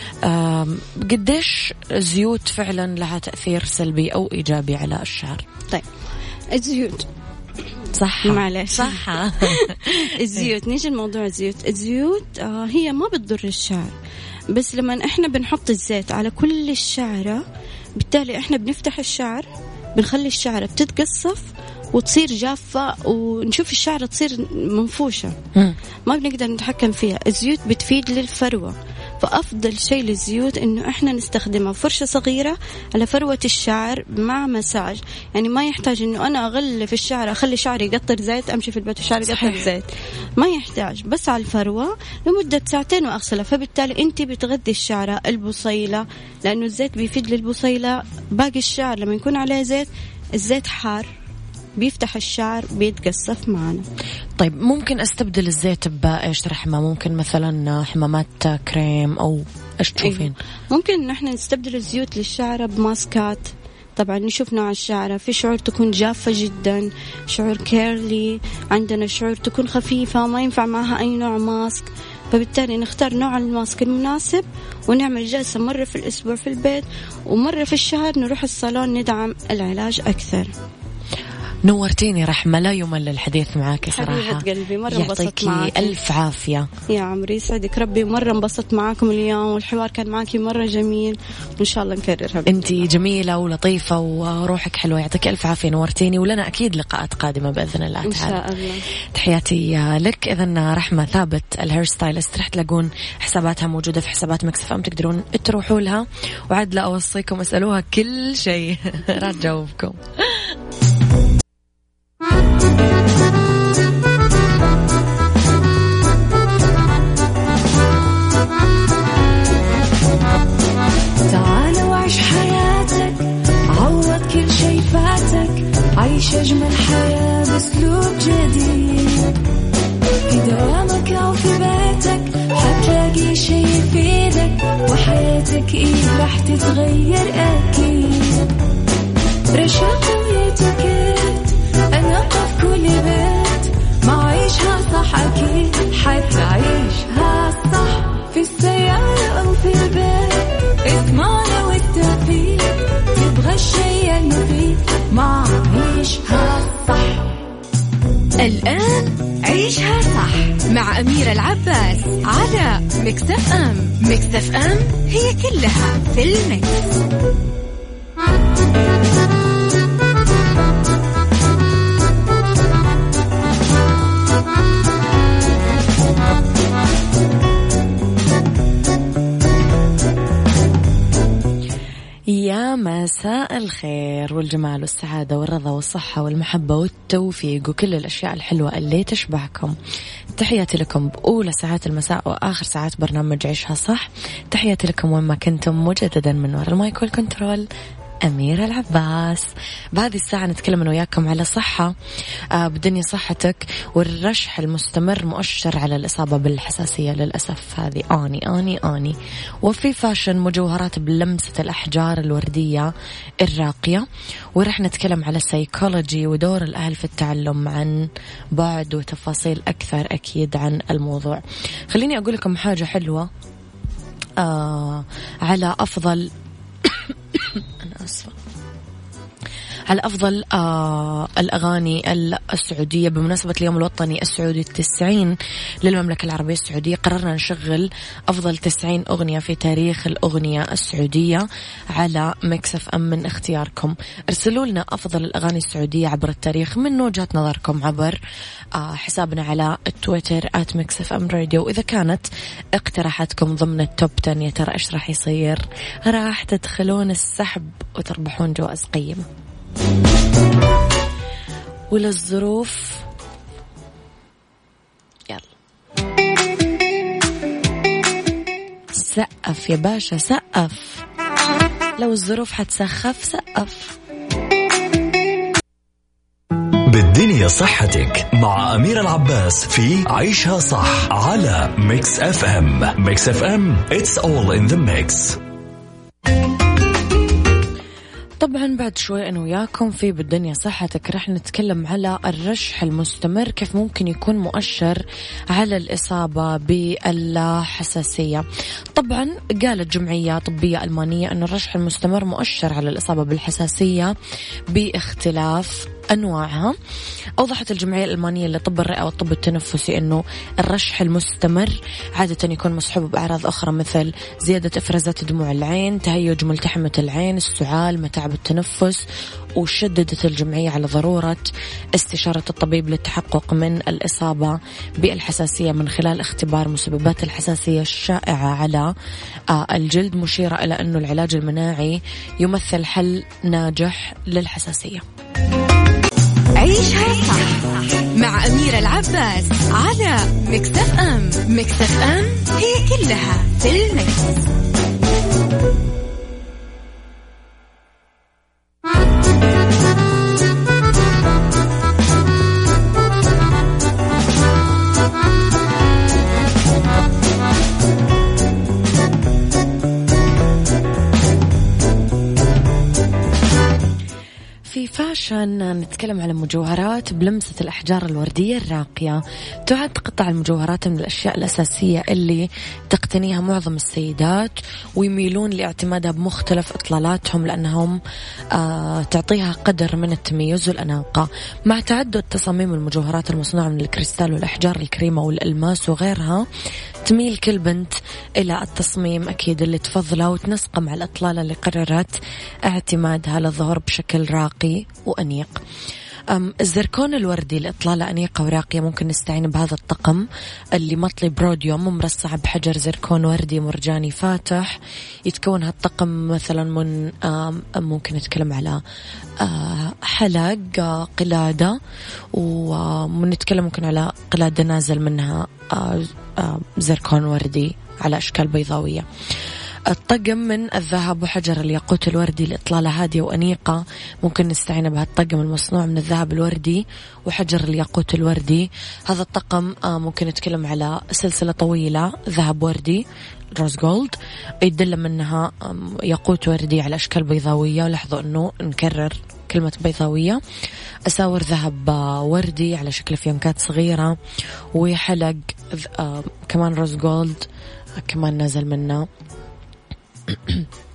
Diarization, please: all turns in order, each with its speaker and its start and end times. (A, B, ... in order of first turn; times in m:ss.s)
0:00.2-0:05.4 A
0:06.5-0:07.1 B
0:07.9-0:10.2 A
0:08.2-0:13.9 B
0:14.5-0:17.4 B
0:18.0-0:25.3 B
0:26.1-0:51.1 B
0:39.2-0:39.6 A
0:51.8-0:53.8 B
0:54.4-1:00.3 A
1:00.0-1:20.5 B
1:21.6-1:26.7 A
1:23.9-1:25.9 B
1:26.9-1:32.8 B
1:32.4-1:38.4 A
1:38.0-1:38.8 B
1:39.1-1:50.5 A
2:01.2-2:09.4 C
2:10.3-2:18.5 C
2:19.5-2:37.3 C
2:38.4-2:46.9 D
3:02.3-3:09.7 A
3:10.3-3:17.6 A
3:18.2-3:21.9 A
3:22.5-3:32.9 A
3:33.4-3:43.3 A
3:44.4-3:46.3 A
3:46.8-3:48.4 A
3:49.9-4:08.2 A
4:08.8-4:19.3 A
4:21.9-4:23.0 A
4:25.3-4:25.5 A
4:28.9-4:31.0 A
4:32.0-4:33.9 A
4:36.9-4:45.4 E
4:48.4-5:04.1 A
5:04.7-5:06.8 A
5:07.4-5:19.0 A
5:19.6-5:28.9 A
5:29.5-5:35.0 A
5:36.6-5:44.4 D
6:04.6-6:18.0 A
6:18.5-6:26.4 A
6:27.0-6:35.6 A
6:36.3-6:48.8 A
6:49.4-6:51.8 A
6:52.3-6:59.0 A
6:59.9-7:13.0 A
7:13.6-7:20.4 A
7:21.1-7:24.1 A
7:24.7-7:27.5 A
7:28.0-7:29.0 A
7:30.3-7:30.7 A